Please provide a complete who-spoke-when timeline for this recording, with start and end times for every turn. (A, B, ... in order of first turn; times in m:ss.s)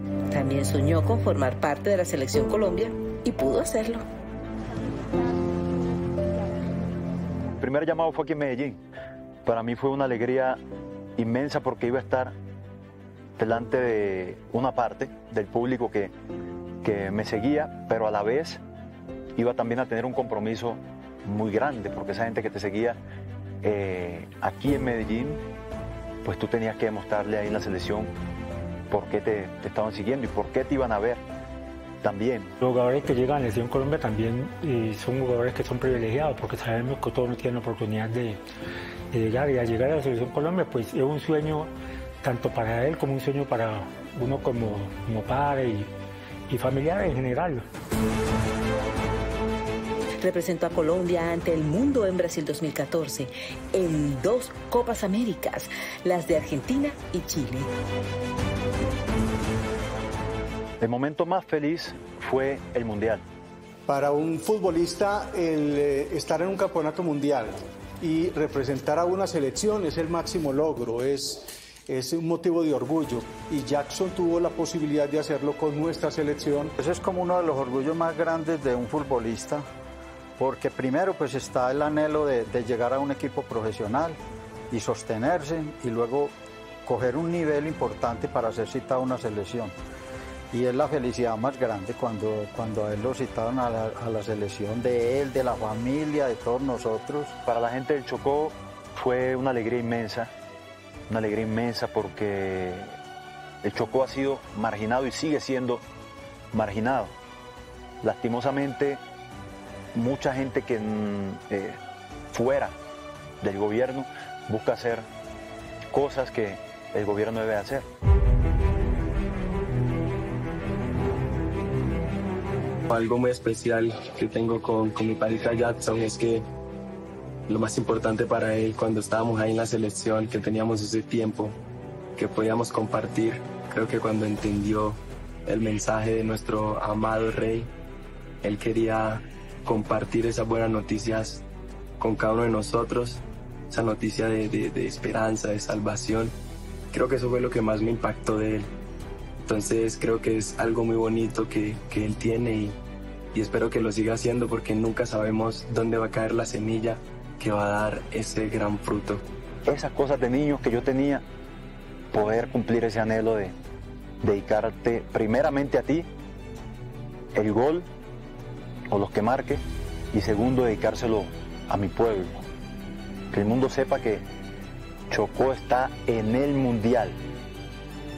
0:00.3-0:04.0 A
0:07.6-0:08.8 B
0:09.4-0:10.6 B
0:11.2-0:12.4 B
0:13.4-0:16.1 B
0:16.8-0:18.6 B
0:19.4-0:23.0 B
0:23.6-0:25.4 B
0:26.2-0:28.1 B
0:28.9-0:31.2 B
0:32.0-0:32.5 B
0:32.6-0:38.4 C
0:39.1-0:41.7 C
0:42.2-0:45.9 C
0:46.5-0:47.6 C
0:50.2-0:57.7 A
1:00.8-1:03.2 B
1:03.8-1:16.7 D
1:16.8-1:19.6 E
1:20.4-1:24.2 E
1:24.7-1:29.7 E
1:30.5-1:37.4 E
1:37.4-1:40.3 B
1:41.1-1:43.0 B
1:43.6-1:45.8 B
1:46.5-1:47.1 B
1:48.0-1:49.0 B
1:49.9-1:51.8 B
1:52.3-1:52.8 B
1:53.4-1:55.1 B
1:55.9-1:57.9 B
2:02.9-2:06.5 F
2:07.5-2:11.6 F
2:12.2-2:17.7 F
2:18.4-2:21.4 F
2:22.0-2:26.4 F
2:26.9-2:28.7 F
2:29.4-2:32.8 F
2:33.3-2:39.2 F
2:39.6-2:41.2 B
2:42.1-2:43.5 B
2:44.2-2:46.1 B
2:47.3-2:47.9 B
2:48.9-2:52.4 B
2:53.3-2:54.2 B
2:55.1-2:57.2 B